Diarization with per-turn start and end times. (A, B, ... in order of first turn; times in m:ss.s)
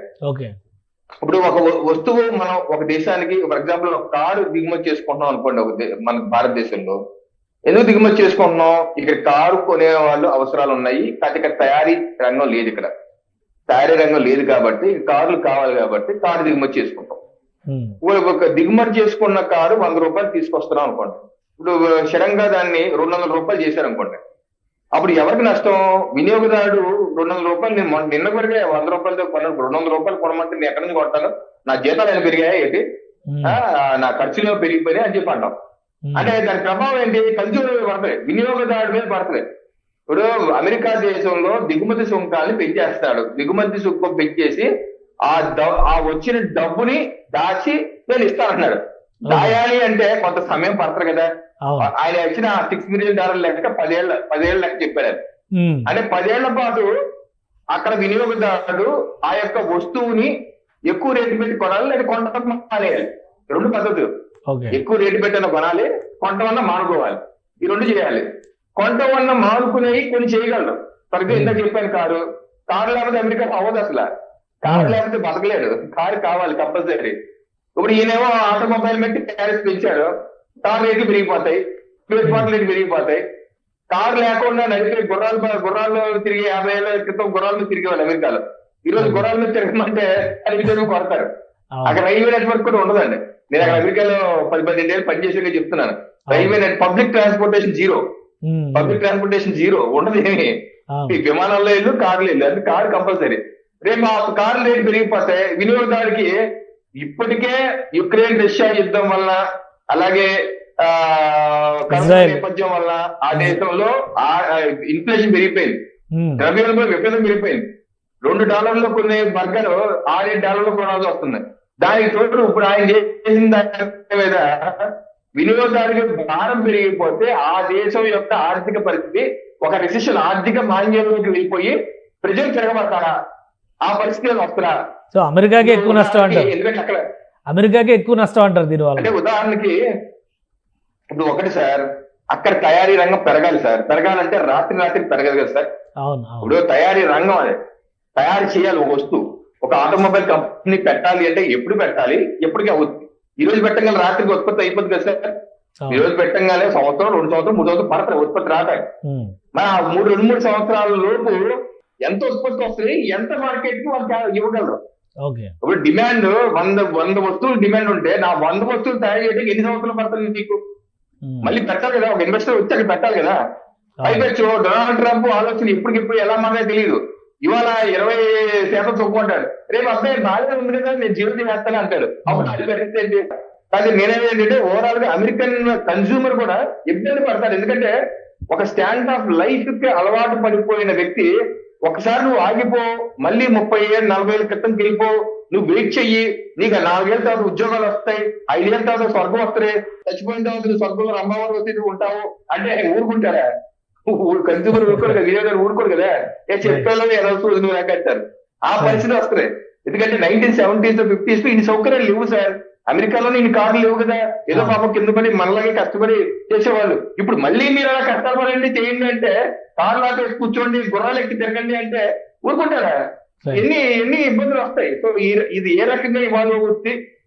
0:00.3-0:00.5 A
0:01.2-0:07.0 B
0:07.7-0:12.9 B
0:13.7-0:17.2 B
0:17.7-0:17.9 A
0:18.0-0:24.2 B
0:24.9-0:32.8 B
0:33.3-0:33.6 A
0:33.4-0:35.5 B
0:36.0-0:36.3 A
0:36.1-0:39.4 B
0:40.1-0:44.7 B
0:45.3-0:51.3 B
0:49.3-0:49.6 A
0:51.6-0:51.9 A
0:51.8-0:55.2 B
0:55.5-0:55.9 A
0:55.9-0:56.9 B
0:57.7-1:00.3 B
1:00.9-1:04.1 B
1:04.5-1:04.8 A
1:04.7-1:08.2 B
1:08.8-1:14.0 B
1:11.3-1:11.6 A
1:14.6-1:17.1 B
1:14.7-1:15.0 A
1:17.8-1:20.1 B
1:20.6-1:23.2 B
1:22.2-1:22.5 A
1:23.9-1:31.3 B
1:29.0-1:29.3 A
1:31.7-1:32.0 A
1:31.9-1:38.0 B
1:33.6-1:33.8 A
1:36.3-1:36.6 A
1:38.5-1:39.0 A
1:38.7-1:40.5 B
1:40.9-1:41.2 A
1:41.1-1:46.3 B
1:47.0-1:49.4 B
1:49.9-1:55.8 B
1:51.9-1:52.4 A
1:53.3-1:53.6 A
1:56.2-1:56.4 A
1:56.4-1:57.6 B
1:58.2-2:13.1 B
2:13.8-2:14.7 B
2:15.1-2:16.5 A
2:15.6-2:17.0 B
2:17.5-2:19.1 A
2:19.0-2:19.8 B
2:21.1-2:25.7 B
2:26.0-2:26.5 A
2:26.4-2:27.6 B
2:28.2-2:35.3 B
2:35.8-2:36.0 A
2:35.9-2:38.8 B
2:39.0-2:39.3 A
2:39.5-2:41.4 B
2:42.0-2:44.8 B
2:45.2-2:45.5 A
2:45.6-2:50.6 B
2:51.2-2:51.5 A
2:51.4-2:53.4 B
2:54.0-2:54.3 A
2:54.0-3:07.9 B
3:02.3-3:02.6 A
3:08.5-3:11.3 B
3:11.8-3:23.4 B
3:24.1-3:42.9 B
3:24.7-3:25.2 A
3:26.6-3:26.9 A
3:28.8-3:29.0 A
3:34.5-3:34.8 A
3:43.5-3:46.9 B